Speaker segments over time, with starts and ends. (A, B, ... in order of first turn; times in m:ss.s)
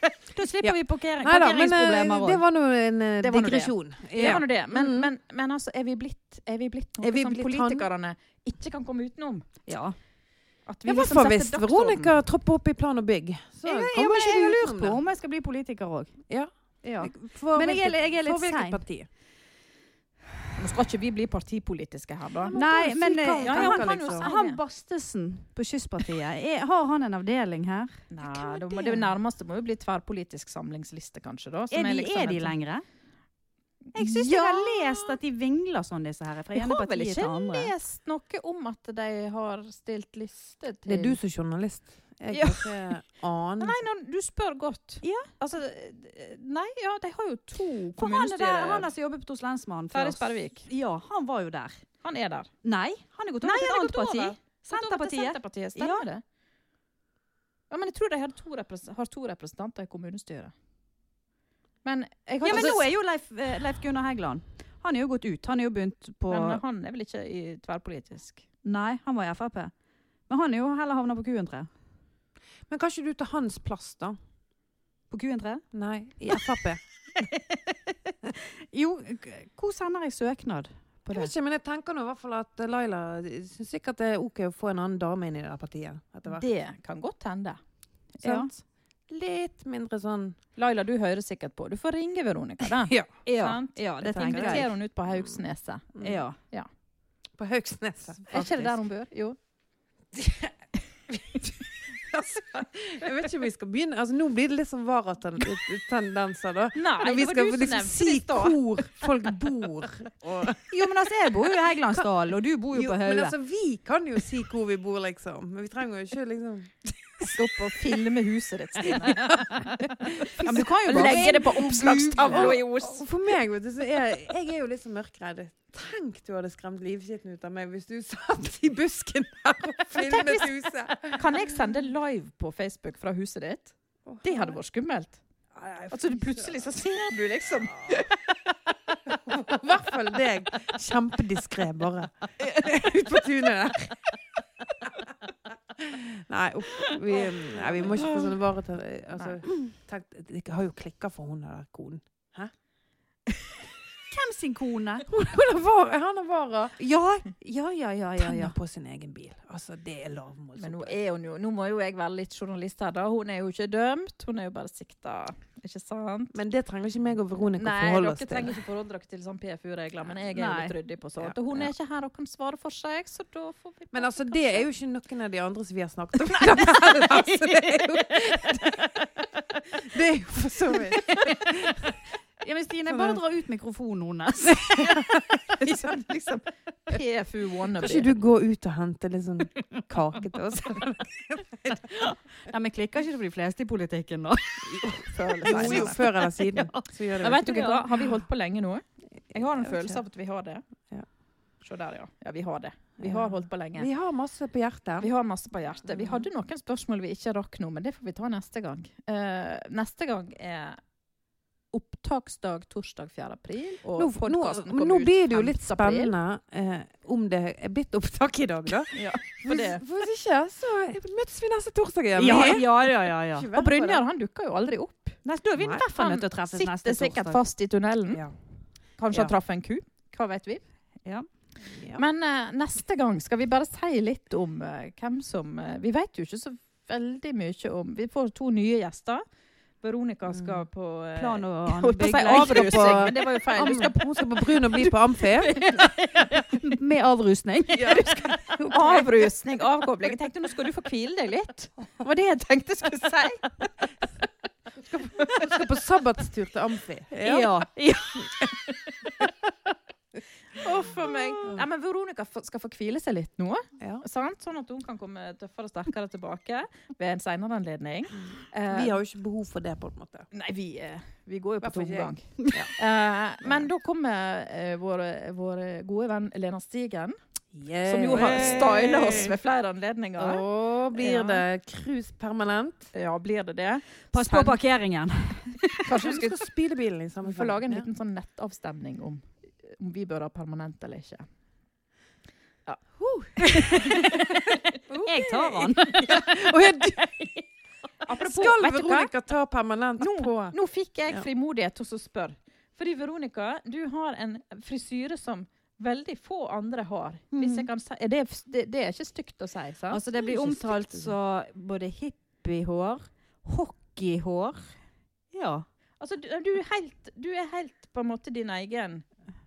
0:00.3-0:02.4 A
0:00.6-0:05.1 B
0:03.2-0:09.6 C
0:04.1-0:04.4 A
0:07.0-0:07.9 B
0:09.6-0:10.0 A
0:10.6-0:12.1 C
0:10.8-0:15.0 B
0:13.6-0:16.2 A
0:16.3-0:19.1 B
0:16.8-0:18.8 A
0:20.6-0:22.6 C
0:22.4-0:24.3 B
0:22.5-0:28.0 A
0:23.4-0:24.6 C
0:28.1-0:32.5 C
0:28.2-0:29.0 B
0:31.7-0:32.8 A
0:33.9-0:35.2 C
0:33.9-0:37.7 A
0:36.5-0:41.2 C
0:40.8-0:43.8 B
0:42.3-0:43.0 C
0:43.6-0:48.9 C
0:45.0-0:45.3 A
0:48.0-0:51.8 A
0:49.9-0:50.7 C
0:52.0-0:52.5 C
0:52.6-0:56.0 A
0:53.4-0:56.2 C
0:57.7-1:00.5 C
1:01.8-1:02.8 C
1:02.4-1:06.6 A
1:06.3-1:08.4 C
1:08.6-1:09.7 A
1:10.3-1:11.7 A
1:12.7-1:14.2 B
1:15.1-1:15.6 A
1:15.7-1:16.8 B
1:16.3-1:16.5 A
1:17.2-1:21.3 A
1:21.1-1:26.4 B
1:26.3-1:27.6 C
1:28.2-1:28.5 A
1:28.2-1:28.5 C
1:29.1-1:30.4 B
1:30.6-1:35.9 C
1:32.8-1:33.1 B
1:33.2-1:34.7 A
1:34.0-1:34.7 B
1:35.9-1:36.2 B
1:36.0-1:36.4 A
1:37.4-1:38.8 B
1:38.3-1:39.4 C
1:40.1-1:40.5 B
1:41.1-1:50.8 B
1:46.7-1:48.6 C
1:50.7-1:53.3 A
1:52.7-1:57.4 B
1:57.2-1:59.5 C
1:58.8-2:11.6 B
1:59.2-2:02.6 A
2:00.3-2:03.1 C
2:09.9-2:10.5 C
2:11.1-2:15.2 C
2:14.0-2:14.6 B
2:15.5-2:16.6 B
2:15.9-2:18.1 C
2:17.7-2:18.1 B
2:19.0-2:24.1 B
2:24.8-2:25.1 B
2:25.7-2:32.5 B
2:34.1-2:35.1 A
2:35.1-2:36.8 B
2:36.8-2:38.5 A
2:38.2-2:41.0 B
2:40.6-2:46.3 C
2:46.3-2:48.5 B
2:47.6-2:54.6 C
2:50.3-2:50.8 A
2:51.2-2:51.7 B
2:53.9-3:01.9 B
3:02.4-3:05.1 A
3:02.9-3:03.2 B
3:04.5-3:06.0 B
3:05.6-3:08.1 C
3:07.7-3:12.0 B
3:11.9-3:17.8 A
3:15.1-3:16.0 C
3:15.4-3:17.7 B
3:17.2-3:20.6 C
3:19.5-3:20.0 B
3:21.6-3:23.9 C
3:23.0-3:25.1 B
3:25.0-3:30.8 C
3:25.8-3:26.2 B
3:31.7-3:36.1 C
3:33.9-3:44.0 B
3:38.9-3:39.8 C
3:42.2-3:43.5 A
3:43.5-3:45.2 C
3:45.2-3:47.4 A
3:45.6-3:45.8 B
3:45.8-3:48.2 C
3:49.0-3:50.6 C
3:51.6-3:52.0 B
3:51.9-3:59.2 C
3:59.8-4:04.9 C
4:00.3-4:00.6 B
4:01.2-4:03.2 A
4:02.2-4:05.9 B
4:05.3-4:08.2 A
4:07.7-4:09.3 B
4:07.8-4:13.8 C
4:14.8-4:17.6 B
4:14.9-4:15.5 C
4:17.1-4:18.3 A
4:18.2-4:18.5 B
4:18.7-4:19.1 C
4:20.5-4:29.0 C
4:28.7-4:30.3 B
4:30.3-4:37.2 C
4:31.6-4:32.7 B
4:32.4-4:32.6 A
4:37.5-4:39.3 B
4:37.8-4:40.4 C
4:38.1-4:39.2 A
4:40.2-4:42.9 B
4:40.9-4:41.4 C
4:42.9-4:44.6 C
4:44.1-4:45.8 A
4:45.8-4:46.4 C
4:45.9-4:47.9 B
4:47.2-4:51.3 C
4:52.6-4:54.4 C
4:53.4-4:54.3 A
4:54.9-4:57.4 B
4:54.9-4:56.2 A
4:58.0-4:59.1 C
4:58.1-5:00.6 B
5:00.0-5:10.0 C
5:07.3-5:07.7 A
5:09.9-5:14.7 A
5:10.2-5:11.1 B
5:15.3-5:15.6 A
5:16.0-5:19.0 C